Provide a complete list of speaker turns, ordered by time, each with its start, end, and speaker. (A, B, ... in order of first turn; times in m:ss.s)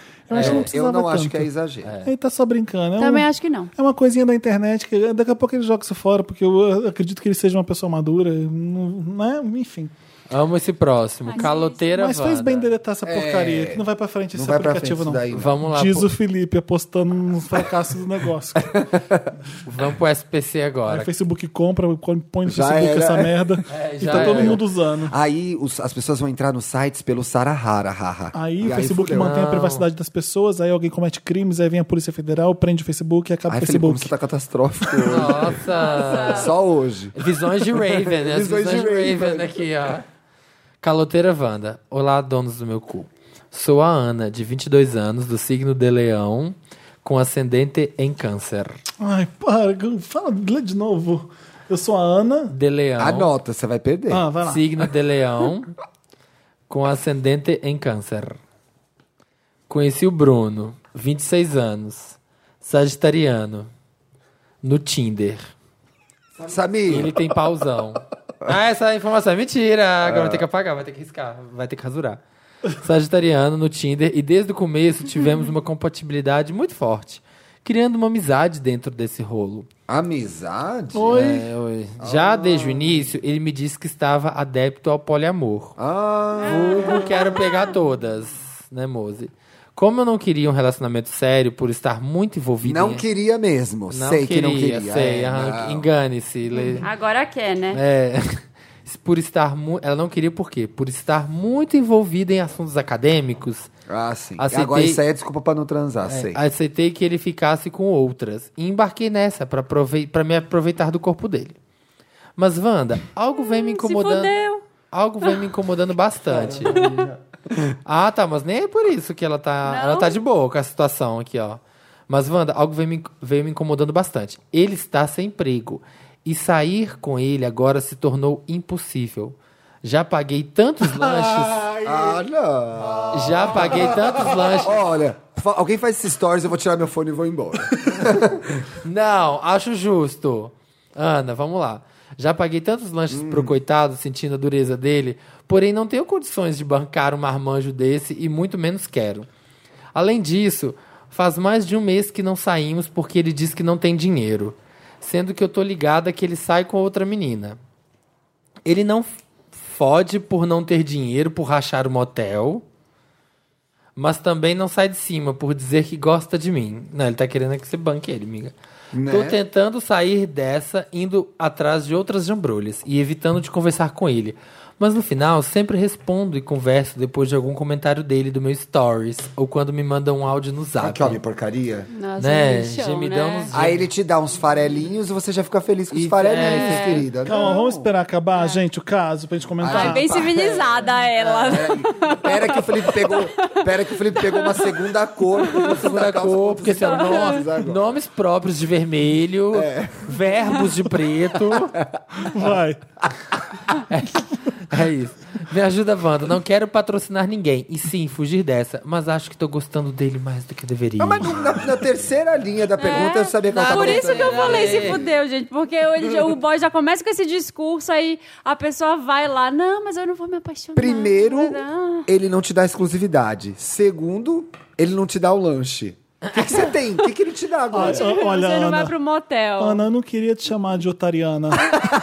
0:00.3-0:01.5 A
0:00.3-0:00.7 B
0:00.3-0:01.9 C
0:01.8-0:02.1 B
0:02.0-0:09.9 A
0:03.0-0:03.7 D
0:10.3-0:12.7 B
0:11.3-0:11.9 D
0:11.4-0:18.8 A
0:13.0-0:15.6 C
0:15.3-0:16.1 B
0:18.6-0:19.3 C
0:19.6-0:21.1 B
0:20.9-0:25.1 A
0:22.4-0:23.4 C
0:23.7-0:24.6 B
0:24.0-0:29.4 C
0:28.3-0:34.1 A
0:29.1-0:29.9 B
0:33.5-0:39.6 C
0:34.9-0:35.3 A
0:35.1-0:36.5 B
0:35.7-0:36.5 D
0:37.2-0:40.0 B
0:40.8-0:48.8 B
0:49.0-0:52.5 A
0:52.5-0:53.3 B
0:53.0-0:54.2 C
0:54.1-0:54.6 A
0:54.4-0:55.7 B
0:56.7-0:58.4 B
0:59.7-1:03.7 B
1:04.6-1:05.5 B
1:06.4-1:07.1 C
1:06.9-1:12.2 B
1:10.0-1:10.4 C
1:12.7-1:19.7 B
1:19.9-1:21.4 C
1:20.9-1:21.4 A
1:21.1-1:25.8 B
1:22.0-1:23.1 C
1:25.8-1:27.4 C
1:26.4-1:27.4 D
1:26.4-1:33.0 B
1:32.6-1:35.9 C
1:33.9-1:36.9 B
1:36.8-1:37.8 D
1:37.7-1:43.7 B
1:43.9-1:46.4 C
1:44.4-1:45.0 B
1:46.1-1:51.6 B
1:52.4-1:54.3 B
1:53.3-1:54.6 D
1:54.9-1:57.0 B
1:56.3-1:57.1 C
1:56.7-1:57.0 D
1:57.8-2:11.8 B
1:59.6-2:00.2 D
2:11.8-2:18.7 C
2:13.1-2:14.8 B
2:18.8-2:29.3 B
2:23.1-2:23.6 C
2:29.9-2:37.6 B
2:38.6-2:42.6 B
2:44.0-2:48.5 B
2:48.9-2:49.4 C
2:49.0-3:01.2 B
3:00.8-3:01.9 C
3:01.9-3:03.5 D
3:02.2-3:03.8 B
3:03.5-3:07.9 C
3:05.9-3:07.1 B
3:06.3-3:07.5 D
3:07.2-3:10.2 A
3:09.6-3:10.8 C
3:09.7-3:14.8 D
3:11.2-3:11.7 B
3:11.4-3:17.9 C
3:15.5-3:15.7 D
3:15.6-3:21.8 B
3:16.8-3:17.4 D
3:19.5-3:20.5 C
3:21.8-3:22.5 C
3:22.2-3:22.8 A
3:23.9-3:31.6 B
3:31.0-3:35.0 C
3:32.8-3:42.1 D
3:33.4-3:35.1 B
3:40.7-3:48.1 C
3:46.2-3:46.7 B
3:47.7-3:48.9 A
3:47.8-3:49.8 D
3:49.6-3:51.8 A